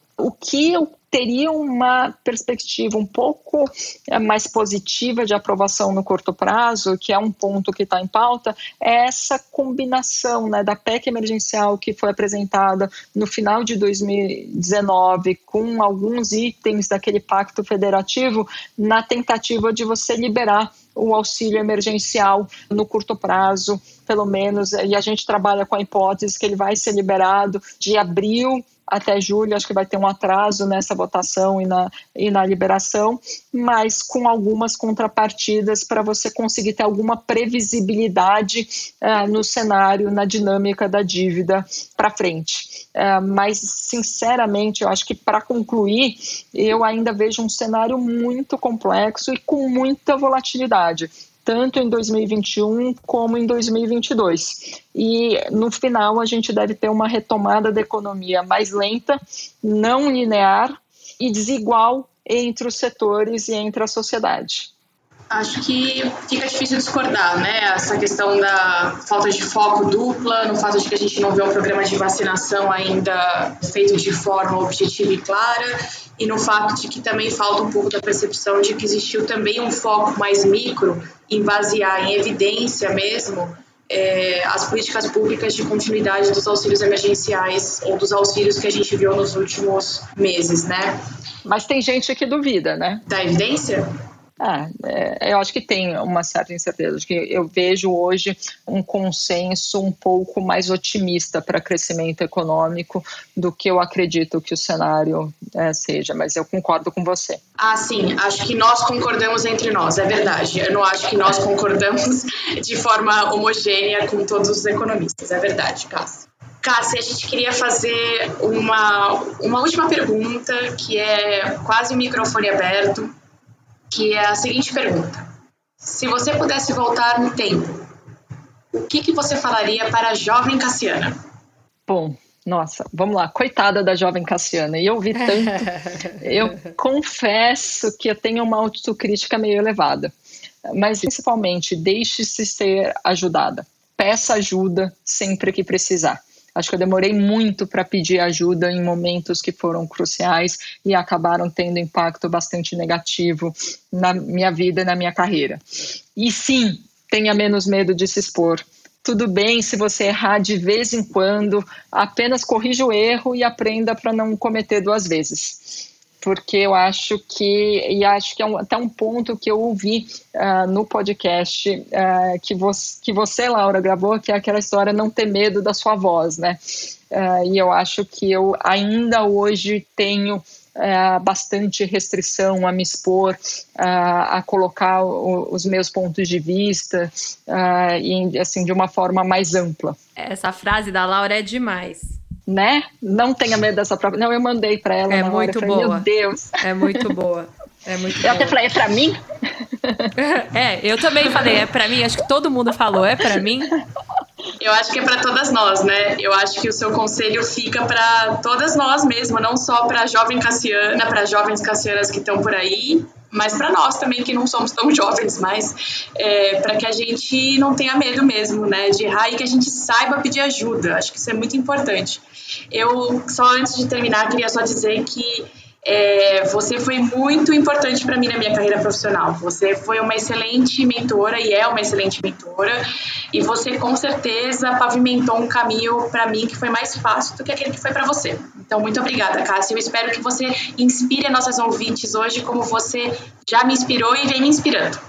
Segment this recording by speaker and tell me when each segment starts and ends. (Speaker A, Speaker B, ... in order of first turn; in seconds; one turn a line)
Speaker A: 0.2-64.7
Speaker B: 65.3-91.0
Speaker A: 91.5-93.0
Speaker B: 93.1-93.9
Speaker A: 94.4-107.4
Speaker B: 107.6-123.1
Speaker B: 123.9-125.2
Speaker B: 125.8-127.9
Speaker B: 128.7-131.2
Speaker A: 131.9-140.1
Speaker A: 140.7-155.6
Speaker A: 156.2-176.6
Speaker A: 177.1-190.0
Speaker C: 190.2-192.2
Speaker A: 192.5-197.0
Speaker C: 195.1-196.1
Speaker C: 196.6-198.6
Speaker A: 198.2-200.1
Speaker C: 200.2-203.8
Speaker B: 204.6-245.0